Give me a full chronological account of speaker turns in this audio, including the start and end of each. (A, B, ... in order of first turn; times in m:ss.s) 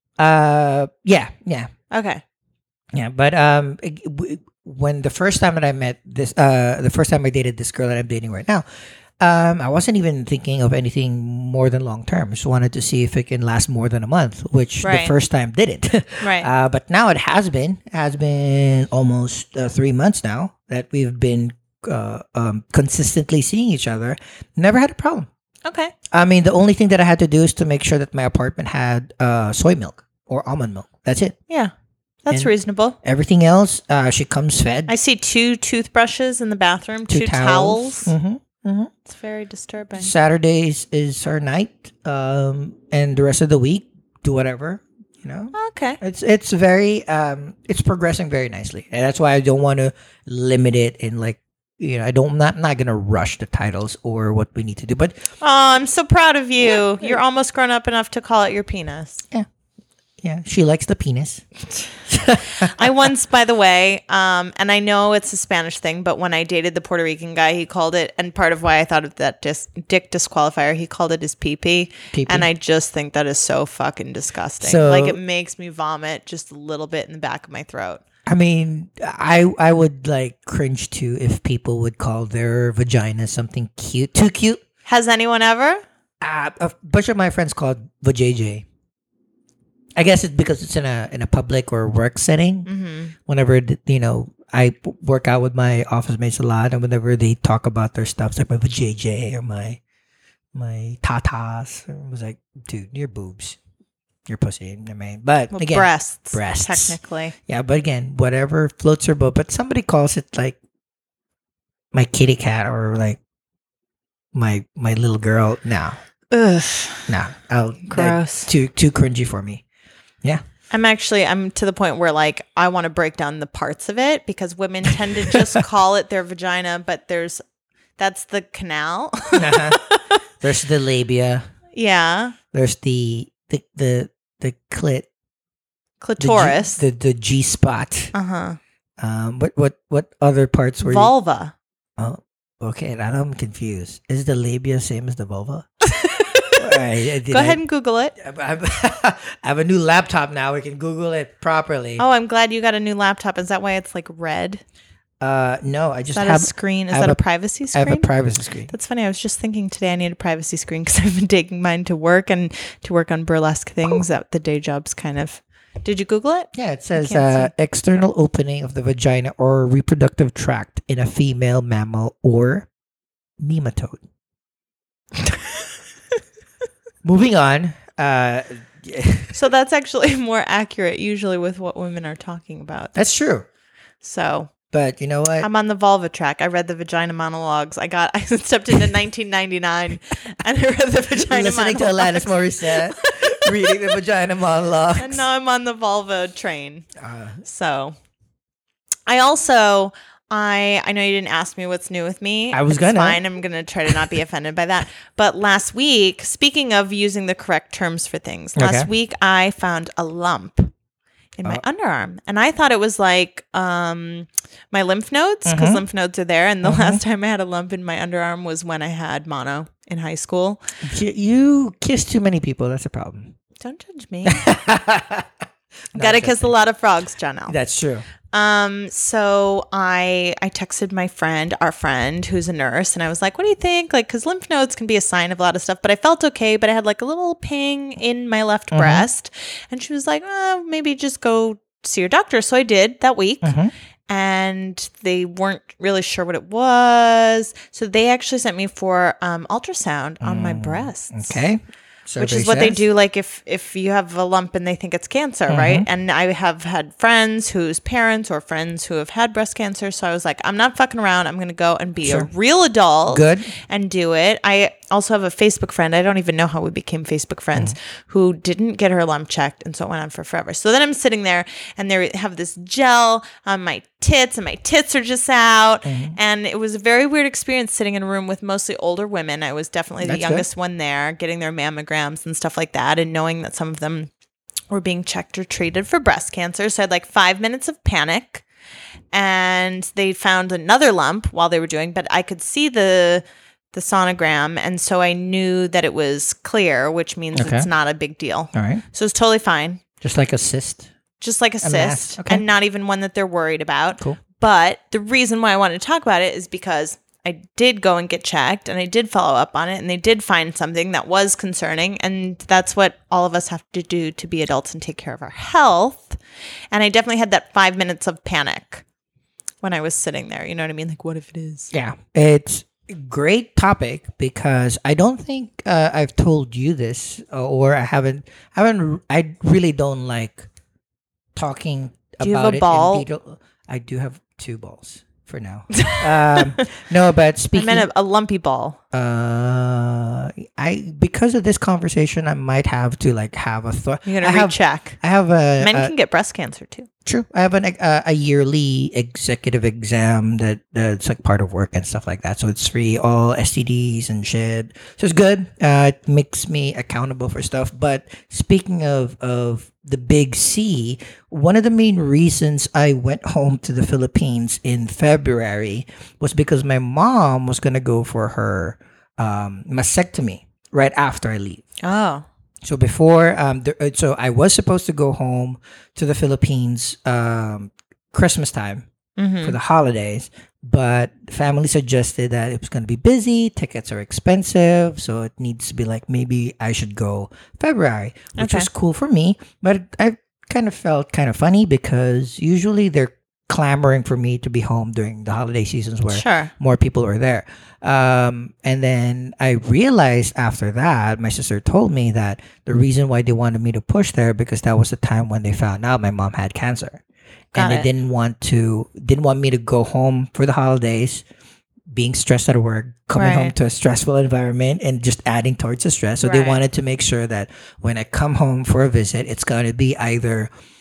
0:00.2-0:01.7 A
0:01.9-0:02.2 B
0:02.9-0:08.6 A
0:09.2-0:25.3 A
0:14.8-0:15.1 B
0:16.2-0:16.5 B
0:25.6-0:25.9 B
0:26.1-0:31.4 A
0:32.2-0:33.0 B
0:33.0-0:34.9 A
0:34.9-0:38.1 B
0:37.1-0:38.9 A
0:39.1-0:40.1 B
0:40.0-0:55.3 A
0:45.5-0:46.0 B
0:55.4-0:59.2 B
1:00.2-1:01.4 A
1:02.1-1:02.9 A
1:02.6-1:18.0 B
1:12.1-1:12.5 A
1:14.6-1:15.2 A
1:18.2-1:24.6 A
1:24.8-1:25.8 B
1:26.2-1:28.6 A
1:30.0-1:32.7 A
1:32.6-1:33.1 B
1:33.2-1:39.8 A
1:40.5-1:43.6 A
1:44.2-1:50.6 A
1:45.5-1:47.3 B
1:51.9-1:53.2 A
1:54.3-1:56.0 A
1:56.3-1:57.1 B
1:57.1-1:59.6 A
1:57.8-1:58.5 B
2:00.7-2:07.4 B
2:08.0-2:10.2 B
2:09.3-2:09.8 A
2:10.4-2:11.4 A
2:11.7-2:12.4 B
2:12.5-2:15.1 A
2:16.0-2:16.8 B
2:16.2-2:18.1 A
2:18.1-2:18.6 B
2:19.0-2:21.1 A
2:20.8-2:21.5 B
2:22.0-2:25.7 A
2:25.9-2:28.1 B
2:26.5-2:27.6 A
2:28.2-2:32.0 A
2:32.0-2:34.6 B
2:35.2-2:38.7 A
2:36.1-2:38.1 B
2:38.7-2:47.5 B
2:46.5-2:52.7 A
2:53.4-2:54.0 A
2:57.0-2:59.3 A
2:59.3-3:03.1 B
3:02.9-3:03.4 A
3:04.0-3:04.5 B
3:04.7-3:05.5 A
3:05.4-3:13.9 B
3:11.2-3:15.2 A
3:15.0-3:16.8 B
3:17.0-3:17.4 A
3:17.4-3:17.9 B
3:19.1-3:30.7 B
3:22.5-3:23.2 A
3:28.6-3:28.9 A
3:31.4-3:40.6 B
3:35.4-3:35.8 A
3:36.6-3:37.0 A
3:40.8-3:43.3 A
3:43.6-3:44.5 B
3:44.2-3:45.3 A
3:45.9-3:46.5 A
3:45.9-3:47.6 B
3:47.5-3:48.0 A
3:48.3-4:03.5 B
3:58.7-3:59.1 A
4:03.4-4:03.7 A
4:04.1-4:11.4 B
4:10.2-4:12.8 A
4:12.2-4:44.1 B
4:15.5-4:15.8 A
4:23.1-4:23.5 A
4:35.8-4:36.2 A
4:40.0-4:40.4 A
4:44.7-4:48.4 B
4:49.1-4:59.8 B
4:57.3-4:57.7 A
4:58.5-4:58.8 A
5:00.0-5:00.9 A
5:01.2-5:16.2 B
5:01.6-5:02.4 A
5:16.7-5:18.8 B
5:19.6-5:21.7 B
5:21.7-5:30.5 A
5:31.3-5:37.9 A
5:32.2-5:33.0 B
5:35.7-5:36.7 B
5:37.5-5:38.8 B
5:38.9-5:45.9 A
5:44.0-5:45.0 B
5:45.6-5:46.9 B
5:47.0-6:11.6 A
6:11.8-6:12.2 B
6:12.6-6:18.9 A
6:19.2-6:19.6 B
6:19.4-6:47.0 A
6:28.4-6:28.7 B
6:36.1-6:36.5 B
6:47.5-6:47.9 B
6:47.5-6:51.2 A
6:51.9-7:00.5 A
6:53.1-6:53.5 B
6:56.2-6:56.6 B